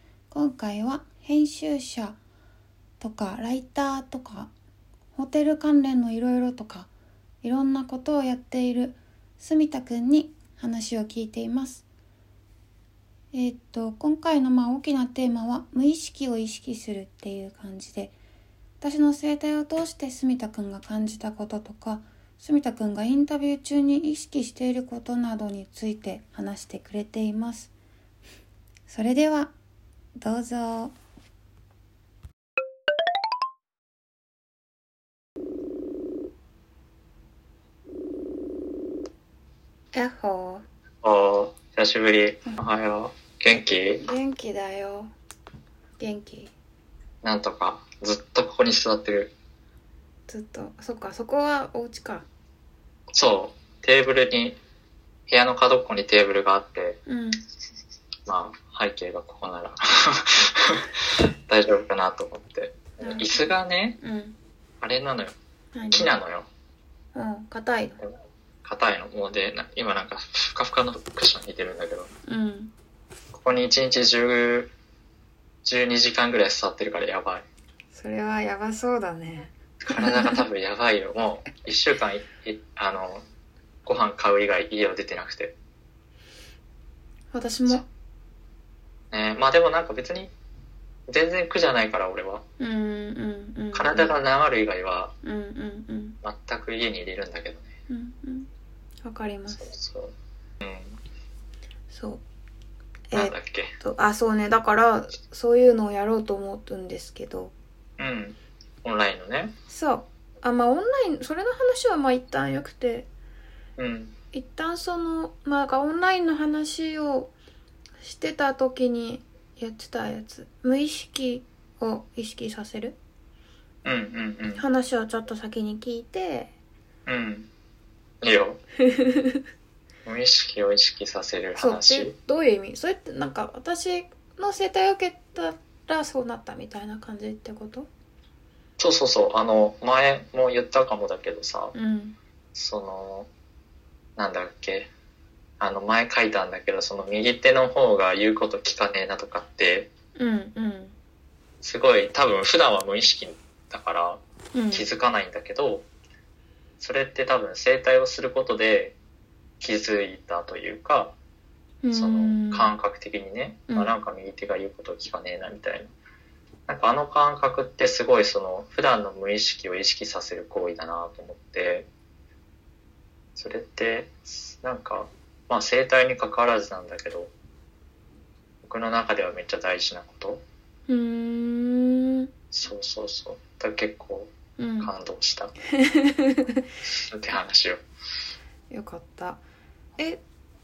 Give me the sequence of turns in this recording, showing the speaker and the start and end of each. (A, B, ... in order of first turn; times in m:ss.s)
0:00.3-0:02.2 A
0:03.0-0:04.5 A
0:05.2-0:06.9 A
0:07.4-0:11.8 A
0:13.3-0:18.1 A
0:18.8-0:27.7 A
0:28.9-0:29.5 A
0:30.2-0:30.9 A
0:39.9-0:40.6 A
0:41.0-0:44.1 B
0:44.0-0:45.1 A
0:46.0-0:46.5 A
0:47.2-0:49.3 B
0:50.3-0:52.2 A
0:53.1-0:54.6 B
0:55.3-0:57.0 B
0:57.1-0:57.4 A
0:58.2-1:04.0 B
1:03.0-1:03.3 A
1:04.0-1:04.4 A
1:04.8-1:05.3 B
1:05.7-1:06.1 A
1:05.9-1:06.5 B
1:07.1-1:08.0 A
1:08.0-1:12.1 B
1:12.2-1:12.7 A
1:13.3-1:14.7 B
1:15.6-1:17.4 B
1:17.9-1:20.4 A
1:19.8-1:23.2 B
1:23.8-1:25.6 B
1:27.3-1:27.8 A
1:29.1-1:30.3 B
1:31.1-1:32.4 B
1:32.6-1:34.1 A
1:33.7-1:35.1 B
1:35.2-1:36.2 A
1:36.2-1:37.7 B
1:37.9-1:38.5 A
1:39.0-1:39.7 A
1:39.5-1:41.0 B
1:41.9-1:42.2 A
1:43.1-1:47.5 A
1:43.1-1:43.7 B
1:48.0-1:49.5 B
1:49.7-1:53.1 A
1:53.8-1:54.2 B
1:54.3-1:57.3 A
1:58.0-2:03.0 A
2:03.8-2:04.6 B
2:04.6-2:06.5 A
2:07.0-2:07.5 B
2:08.2-2:08.6 B
2:08.8-2:09.4 A
2:10.0-2:12.1 B
2:11.6-2:17.9 A
2:18.8-2:21.7 B
2:21.7-2:22.2 A
2:22.5-2:23.3 B
2:24.2-2:24.9 B
2:25.6-2:29.9 B
2:30.2-2:30.9 A
2:31.6-2:35.9 B
2:34.5-2:34.8 A
2:36.8-2:39.0 B
2:39.6-2:41.2 B
2:41.8-2:42.7 A
2:41.9-2:45.9 B
2:43.7-2:43.9 A
2:46.7-2:51.9 B
2:53.4-2:57.3 B
2:58.6-3:00.4 B
3:00.9-3:02.3 A
3:02.5-3:05.5 B
3:04.6-3:04.9 A
3:05.8-3:06.6 A
3:06.8-3:07.8 B
3:08.7-3:09.4 A